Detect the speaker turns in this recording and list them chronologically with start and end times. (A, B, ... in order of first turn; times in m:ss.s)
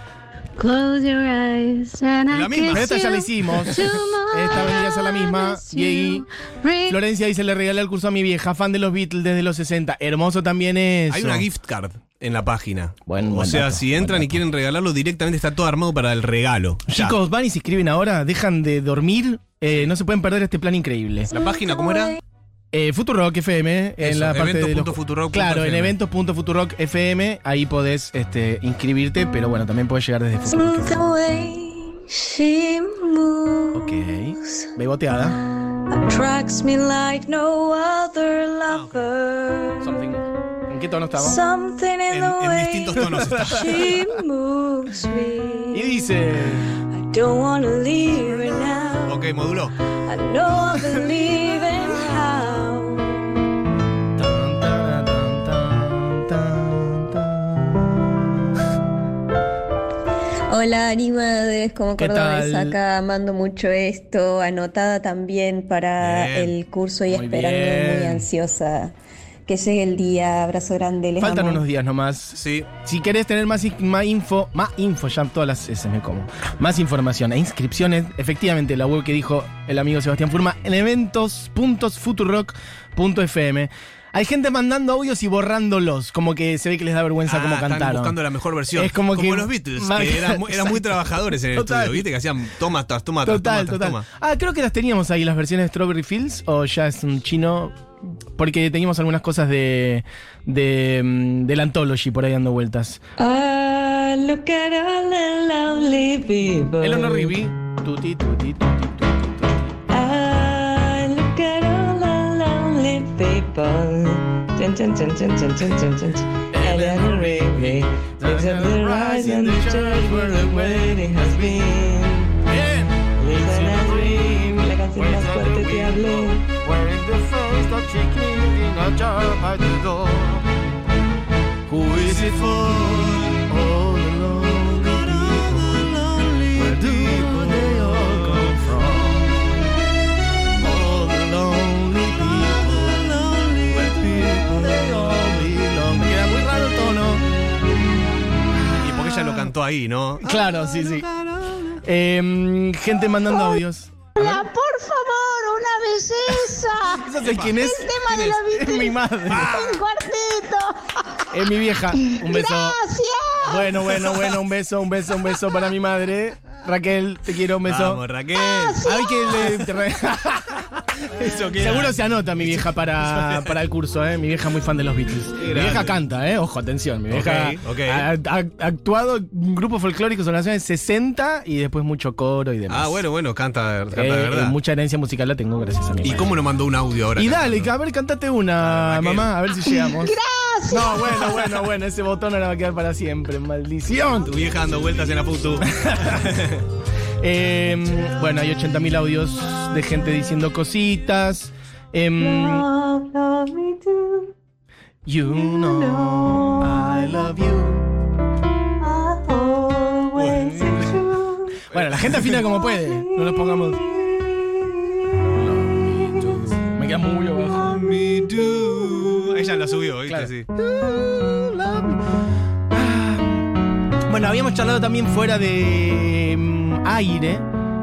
0:00.6-0:07.0 A
0:01.3-0:01.7 B
0:02.3-0:03.0 C
0:02.7-0:06.3 D
0:04.0-0:04.2 B
0:06.9-0:11.5 D
0:11.1-0:17.2 C
0:13.1-0:14.4 D
0:16.9-0:21.3 D
0:21.3-0:22.2 C
0:21.4-0:22.2 B
0:22.7-0:31.0 D
0:24.0-0:26.0 C
0:30.5-0:34.0 B
0:33.7-0:35.4 D
0:35.9-0:40.0 B
0:38.7-0:39.1 C
0:39.8-0:41.4 D
0:41.2-0:46.2 B
0:42.1-0:44.0 C
0:43.2-0:43.9 D
0:45.7-0:46.7 D
0:46.7-0:49.3 B
0:49.0-0:49.8 C
0:50.0-0:53.3 B
0:54.2-0:58.0 D
1:00.5-1:08.9 E
1:02.0-1:02.8 D
1:06.0-1:06.6 C
1:07.1-1:08.3 D
1:09.5-1:11.6 E
1:11.2-1:28.2 D
1:12.3-1:12.7 C
1:27.3-1:34.1 C
1:28.7-1:32.1 D
1:33.2-1:37.8 D
1:38.4-1:43.0 D
1:43.2-1:47.4 B
1:46.8-1:49.7 D
1:49.9-2:02.4 B
1:56.5-2:01.5 D
2:02.4-2:10.5 D
2:03.2-2:06.4 B
2:11.7-2:16.0 D
2:12.0-2:13.4 C
2:14.8-2:18.6 C
2:16.5-2:19.5 D
2:20.6-2:23.1 D
2:22.4-2:24.7 C
2:23.7-2:27.3 D
2:28.8-2:31.8 C
2:29.0-2:29.5 D
2:30.2-2:31.1 D
2:31.8-2:34.5 D
2:34.2-2:40.8 F
2:36.4-2:39.7 D
2:37.2-2:38.4 C
2:39.3-2:39.8 C
2:41.3-2:42.8 D
2:42.0-2:43.8 F
2:43.4-2:48.0 D
2:44.0-2:44.3 C
2:47.6-2:49.6 C
2:48.4-2:49.3 F
2:48.8-2:50.7 D
2:51.0-2:53.6 C
2:51.5-3:03.0 D
2:55.4-2:56.0 C
2:57.1-2:58.1 C
3:02.7-3:04.6 C
3:03.9-3:06.3 D
3:06.0-3:07.7 C
3:07.2-3:10.2 D
3:08.6-3:09.4 C
3:09.6-3:11.3 F
3:10.7-3:14.4 D
3:14.2-3:16.6 C
3:15.6-3:16.6 D
3:17.2-3:22.7 D
3:22.2-3:24.3 B
3:25.1-3:27.9 D
3:25.3-3:27.3 B
3:28.8-3:31.6 B
3:30.2-3:30.9 C
3:30.3-3:30.8 D
3:31.6-3:33.8 D
3:31.7-3:32.4 C
3:32.4-3:35.2 B
3:35.3-3:37.8 D
3:35.8-3:36.4 B
3:37.5-3:40.5 C
3:40.1-3:42.0 D
3:42.7-3:43.5 D
3:44.1-3:47.4 D